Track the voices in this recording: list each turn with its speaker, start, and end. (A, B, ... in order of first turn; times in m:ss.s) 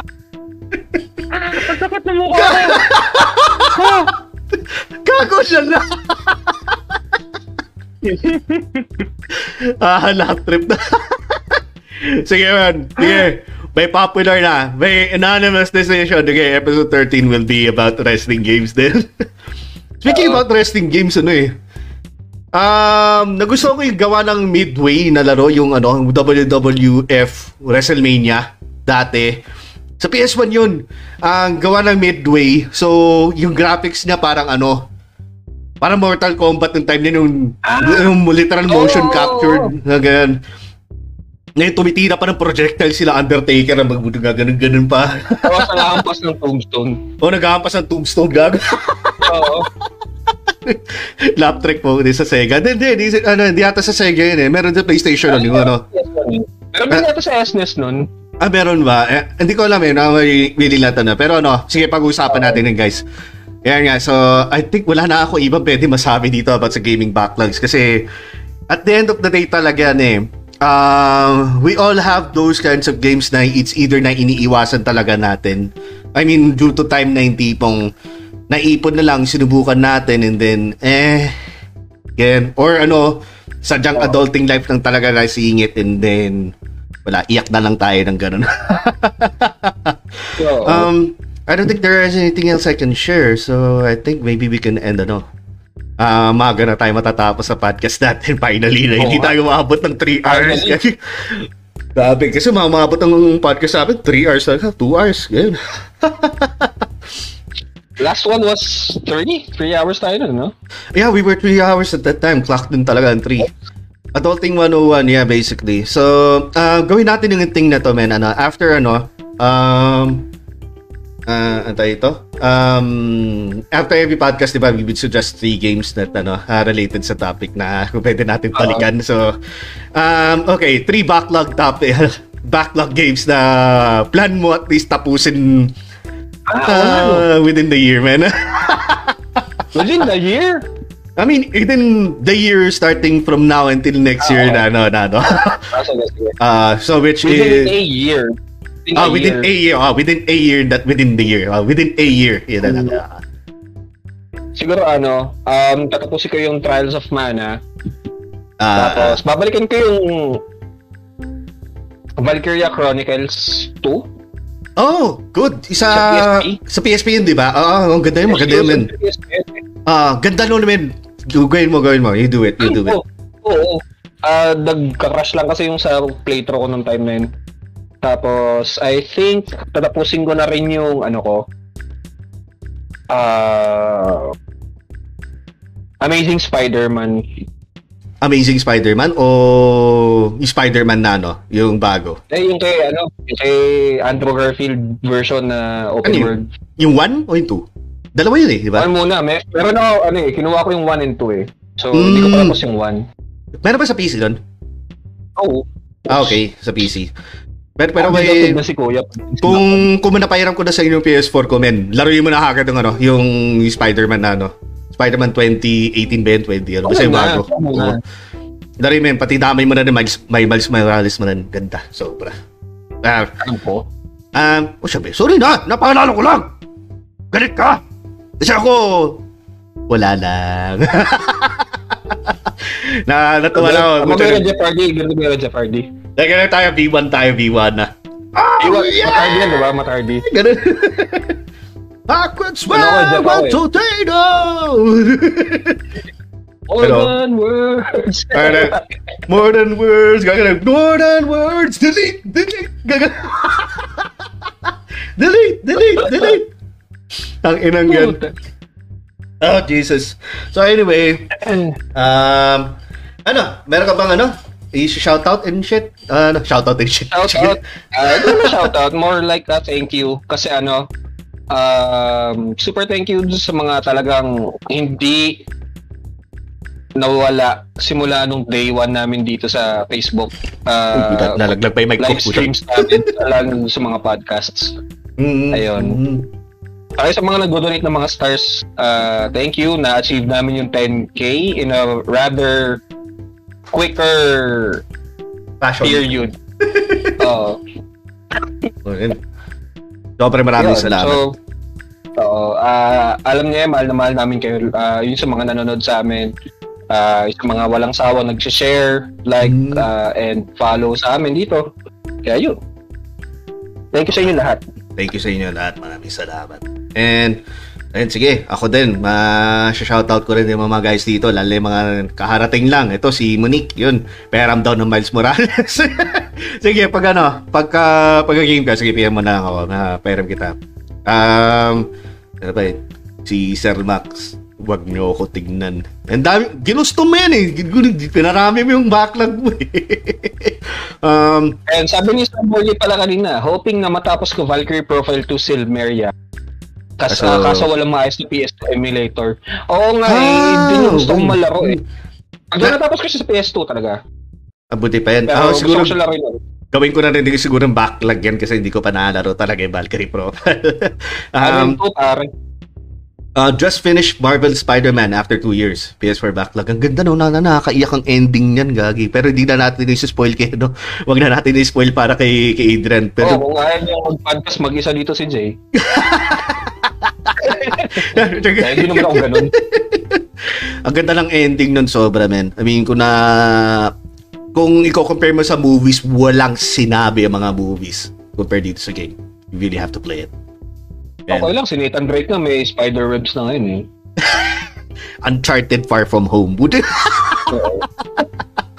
0:01.3-0:02.9 A
0:02.4-0:06.8 B
0:03.7-0:04.1 A
0:08.0-0:09.0 A
0:09.3-0:19.3 B
0:20.0-0:21.6 B
0:20.1-0:20.4 A
0:22.5-0:29.4 B
0:30.0-0:34.9 B
0:35.8-0:40.4 B
0:37.6-0:38.1 A
0:38.7-0:39.7 A
0:41.6-0:46.0 B
0:45.4-0:47.0 A
0:47.2-0:49.5 B
0:49.2-0:49.7 A
0:50.5-0:55.8 B
0:55.3-0:58.1 A
0:58.4-1:03.0 B
1:02.3-1:02.6 A
1:03.6-1:08.1 B
1:08.7-1:17.9 B
1:18.5-1:21.4 B
1:22.2-1:26.5 B
1:27.0-1:35.2 B
1:30.4-1:30.9 A
1:36.0-1:46.8 B
1:39.0-1:39.3 A
1:40.2-1:40.8 A
1:48.0-1:50.5 A
1:51.0-1:53.5 B
1:54.1-2:00.3 B
2:01.3-2:09.4 B
2:08.6-2:08.9 A
2:10.0-2:15.7 B
2:16.5-2:17.3 A
2:16.7-2:19.4 B
2:19.7-2:20.6 A
2:21.2-2:25.7 B
2:24.2-2:24.6 A
2:25.5-2:26.4 A
2:26.4-2:27.8 B
2:27.2-2:28.4 A
2:28.9-2:29.5 A
2:29.0-2:33.2 B
2:32.6-2:33.0 A
2:34.6-2:37.6 A
2:38.6-2:39.2 B
2:38.8-2:40.4 A
2:42.2-2:44.1 A
2:44.8-2:48.9 B
2:45.9-2:46.6 A
2:48.3-2:49.6 A
2:49.9-2:53.0 B
2:52.6-2:57.3 A
2:58.0-3:01.4 A
3:03.1-3:04.3 A
3:06.0-3:07.2 A
3:08.2-3:12.2 B
3:12.3-3:16.5 A
3:16.0-3:18.9 B
3:18.8-3:23.0 A
3:21.9-3:22.6 B
3:23.6-3:24.4 B
3:25.4-3:26.4 A
3:26.1-3:27.1 B
3:27.8-3:28.6 B
3:28.0-3:29.9 A
3:29.4-3:38.0 B
3:36.8-3:38.0 A
3:38.8-3:42.4 B
3:43.0-3:43.3 B
3:43.4-3:43.9 A
3:44.3-3:46.5 B
3:47.3-3:47.8 B
3:48.4-3:49.2 B
3:49.9-3:54.5 B
3:53.6-3:55.9 A
3:56.2-3:59.7 B
3:58.6-4:00.3 A
4:00.3-4:01.4 B
4:02.1-4:05.8 B
4:02.7-4:03.6 A
4:06.7-4:08.8 A
4:06.8-4:07.1 B
4:08.3-4:08.8 B
4:09.3-4:14.1 B
4:14.7-4:16.5 B
4:16.0-4:16.3 A
4:17.4-4:18.2 B
4:17.9-4:18.3 A
4:19.4-4:21.3 B
4:21.4-4:21.8 A
4:21.9-4:22.8 B
4:23.3-4:28.7 B
4:27.1-4:30.9 A
4:31.5-4:35.4 A
4:37.0-4:41.4 A
4:40.9-4:43.0 B
4:42.0-4:44.8 A
4:45.2-4:46.3 B
4:45.5-4:46.0 A
4:47.0-4:52.8 A
4:53.7-4:54.8 A
4:55.6-4:56.1 B
4:55.8-4:56.4 A
4:56.6-4:57.1 B
4:57.2-4:57.6 A
4:58.8-4:59.2 B
5:00.2-5:01.2 B
5:00.6-5:01.4 A
5:02.2-5:06.3 A
5:06.9-5:11.7 A
5:09.4-5:09.9 B
5:12.2-5:12.6 A
5:13.9-5:14.6 A
5:15.0-5:17.4 B
5:17.9-5:31.9 B
5:32.4-5:41.6 B
5:41.7-5:46.1 A
5:47.0-5:51.8 A
5:47.1-5:47.7 B
5:50.0-5:51.8 B
5:52.5-5:54.0 A
5:54.7-5:56.0 B
5:55.3-5:56.4 A
5:56.7-6:01.8 B
6:01.4-6:02.3 A
6:03.4-6:13.4 B
6:13.2-6:15.6 A
6:15.7-6:23.9 B
6:17.4-6:19.5 A
6:24.5-6:30.3 B
6:31.3-6:33.9 A
6:34.2-6:34.7 B
6:35.2-6:38.3 B
6:37.5-6:37.8 A